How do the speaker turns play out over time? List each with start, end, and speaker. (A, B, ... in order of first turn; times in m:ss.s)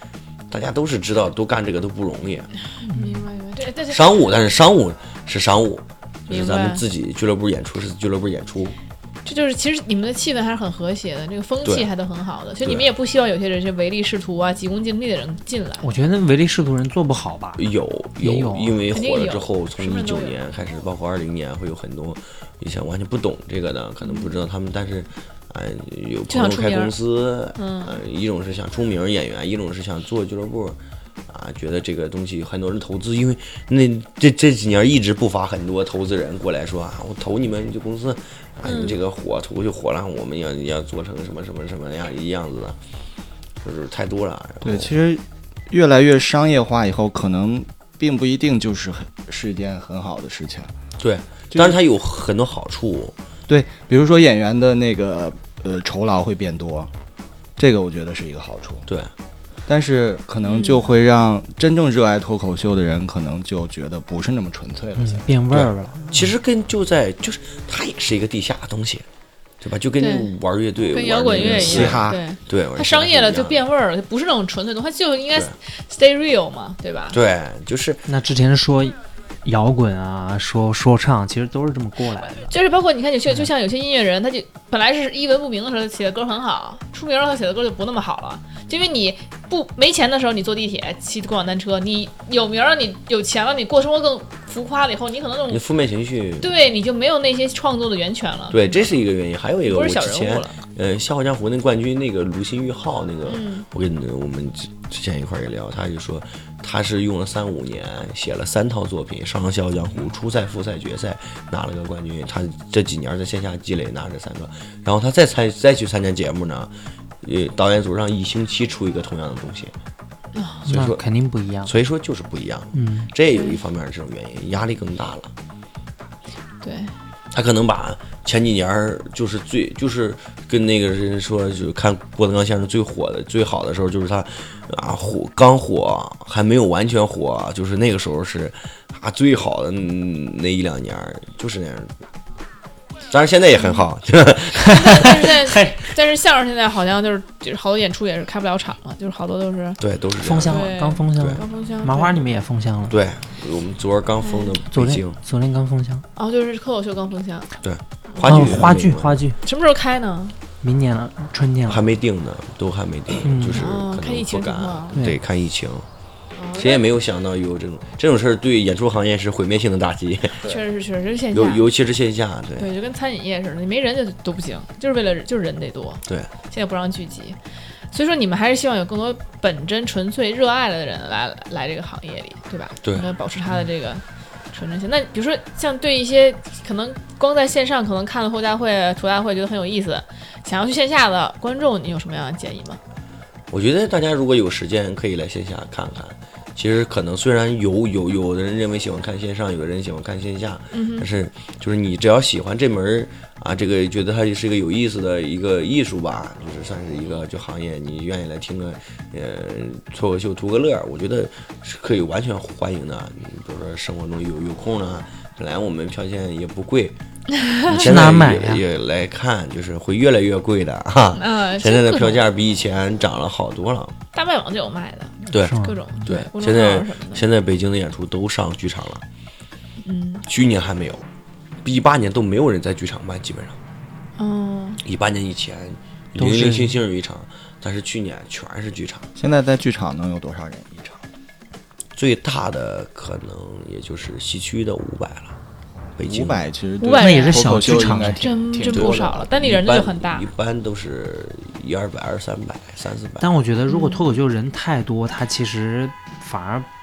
0:00.5-0:02.5 A
0:02.8-0:04.1 B
0:02.9-0:03.2 C
0:03.9-0:08.8 A
0:06.3-0:06.8 B
0:09.2-0:15.9 B
0:15.8-0:17.7 C
0:17.6-0:42.8 A
0:18.2-0:18.8 C
0:18.9-0:20.4 B
0:26.3-0:27.0 B
0:27.6-0:28.0 B
0:38.6-0:39.0 B
0:43.6-0:44.9 A
0:44.6-0:50.7 D
0:51.0-0:53.1 A
0:53.5-0:56.9 D
0:57.6-0:58.9 D
0:58.9-0:59.1 A
0:59.7-1:05.4 D
1:00.4-1:00.9 B
1:05.0-1:06.3 C
1:05.5-1:09.1 A
1:09.6-1:13.6 A
1:10.0-1:10.3 B
1:10.9-1:17.2 B
1:11.4-1:12.2 D
1:17.1-1:18.1 A
1:18.1-1:22.5 C
1:22.2-1:35.6 B
1:35.5-1:36.5 A
1:36.4-1:38.8 B
1:38.5-1:59.7 A
1:39.7-1:40.6 B
1:43.3-1:43.7 B
2:00.4-2:00.7 B
2:00.7-2:01.0 A
2:00.7-2:01.7 C
2:01.6-2:05.3 A
2:02.7-2:03.1 C
2:03.3-2:03.6 B
2:06.6-2:06.9 B
2:07.3-2:21.9 A
2:23.1-2:25.2 A
2:24.7-2:29.8 B
2:24.8-2:25.8 C
2:29.8-2:31.4 A
2:30.2-2:33.0 C
2:30.5-2:32.2 B
2:32.9-2:35.2 A
2:34.2-2:34.5 B
2:34.7-2:36.0 C
2:36.2-2:37.5 B
2:37.6-2:39.2 A
2:38.1-2:38.5 B
2:38.2-2:39.4 C
2:39.4-2:40.4 B
2:40.6-2:41.8 C
2:41.7-2:45.9 A
2:43.2-2:43.7 C
2:43.5-2:45.0 B
2:46.4-2:46.8 B
2:46.5-2:50.5 A
2:50.4-2:51.6 B
2:51.3-2:52.7 A
2:52.6-2:57.4 B
2:57.9-3:12.8 B
3:13.5-3:37.0 A
3:20.7-3:21.1 B
3:37.7-3:44.0 A
3:37.7-3:38.6 C
3:41.1-3:42.2 B
3:44.1-3:47.2 B
3:45.3-3:49.0 A
3:45.3-3:45.8 C
3:49.8-3:50.3 B
3:50.3-3:51.1 A
3:51.6-3:53.6 A
3:54.2-3:54.8 B
3:54.8-3:59.1 A
3:56.2-3:56.8 C
3:59.2-4:01.0 D
4:02.0-4:05.4 A
4:06.0-4:06.4 A
4:06.0-4:09.2 D
4:06.8-4:10.3 B
4:06.9-4:08.3 C
4:08.7-4:13.3 A
4:13.2-4:16.7 C
4:13.7-4:14.0 B